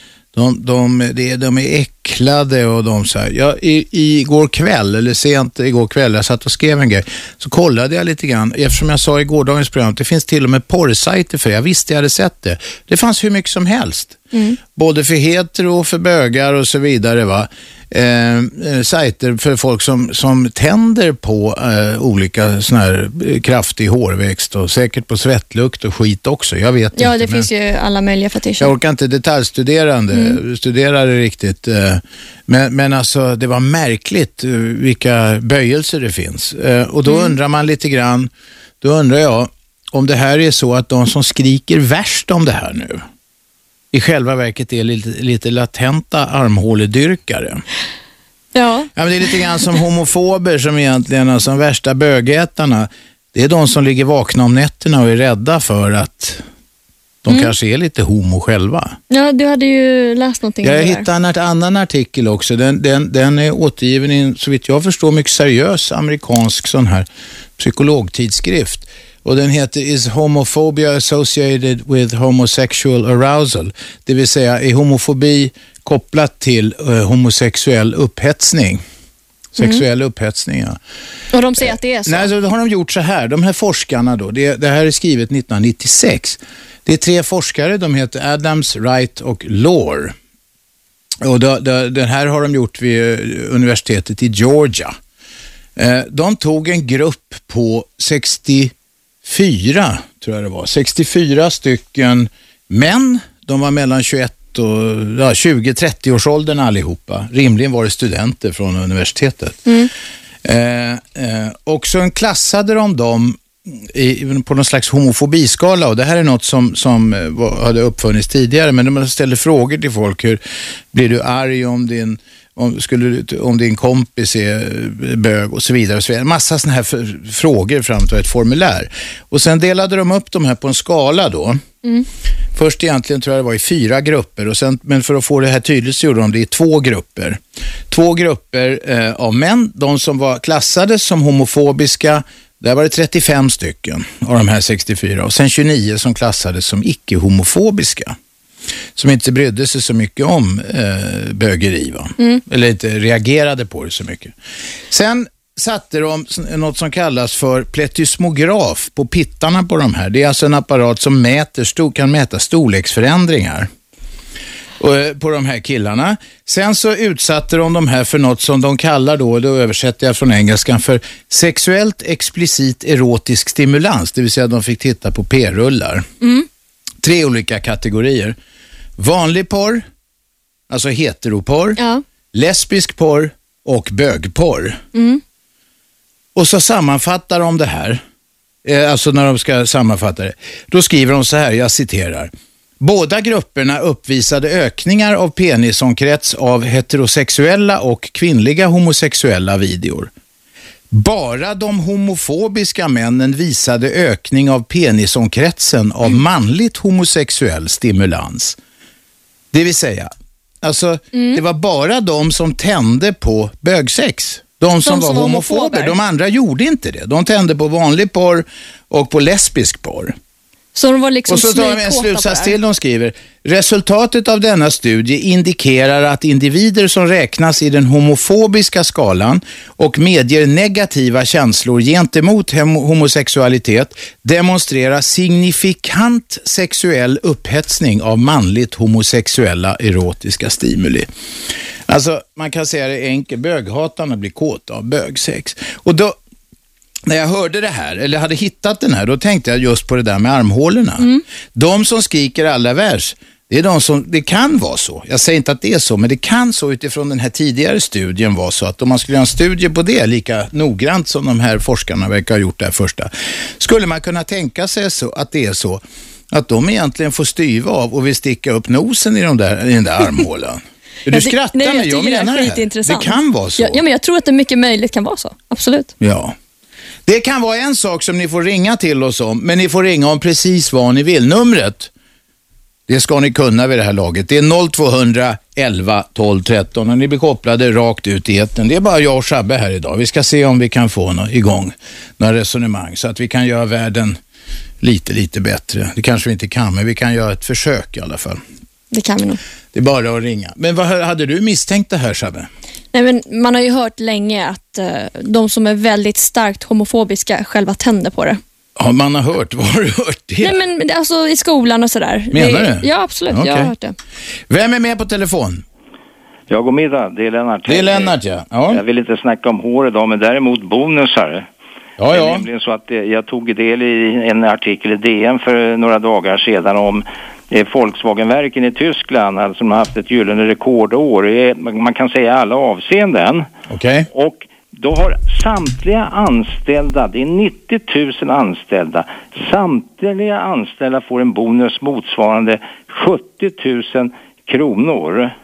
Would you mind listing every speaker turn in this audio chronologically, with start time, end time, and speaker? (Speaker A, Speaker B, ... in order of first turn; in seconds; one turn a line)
Speaker A: 0.3-27.5
Speaker B: 14.3-14.6
Speaker B: 26.9-28.7
Speaker A: 28.6-38.3
Speaker B: 30.1-30.4
Speaker B: 37.0-37.3
Speaker A: 38.8-43.0
Speaker A: 43.9-47.6
Speaker B: 48.5-48.9
Speaker A: 48.9-56.4
Speaker B: 49.4-49.8
Speaker A: 57.2-59.0
Speaker B: 57.3-57.5
Speaker B: 59.1-61.1
Speaker A: 60.6-67.0
Speaker A: 67.6-78.8
Speaker A: 79.6-80.8
Speaker B: 79.6-79.8
Speaker B: 81.3-82.3
Speaker A: 81.6-90.1
Speaker A: 91.2-94.9
Speaker A: 95.8-98.7
Speaker A: 99.2-109.7
Speaker B: 109.6-109.9
Speaker A: 110.4-120.4
Speaker A: 120.9-131.6
Speaker A: 132.5-148.2
Speaker A: 148.9-154.3
Speaker A: 154.9-163.7
Speaker A: 164.8-176.1
Speaker B: 176.2-176.4
Speaker A: 177.0-178.3
Speaker A: 179.0-179.8
Speaker A: 180.7-181.8
Speaker B: 181.8-182.0
Speaker A: 182.3-184.8
Speaker B: 184.9-185.2
Speaker A: 186.3-188.0
Speaker A: 188.6-200.1
Speaker A: 200.9-208.6
Speaker A: 209.5-220.1
Speaker B: 211.1-211.4
Speaker B: 214.8-216.0
Speaker B: 220.7-222.6
Speaker A: 221.3-241.1
Speaker A: 241.9-246.1
Speaker A: 247.1-273.8
Speaker B: 271.1-275.9
Speaker A: 276.0-276.3
Speaker A: 277.1-281.9
Speaker A: 282.9-294.2
Speaker A: 294.8-298.4
Speaker B: 298.9-299.4
Speaker A: 299.7-302.5
Speaker B: 302.9-308.4
Speaker A: 308.8-310.6
Speaker B: 310.4-313.9
Speaker A: 312.3-313.7
Speaker A: 314.5-315.6
Speaker C: 316.5-318.1
Speaker A: 317.7-318.8
Speaker C: 318.7-321.5
Speaker A: 322.0-322.4
Speaker C: 322.1-333.5
Speaker A: 333.7-334.1
Speaker C: 334.1-345.3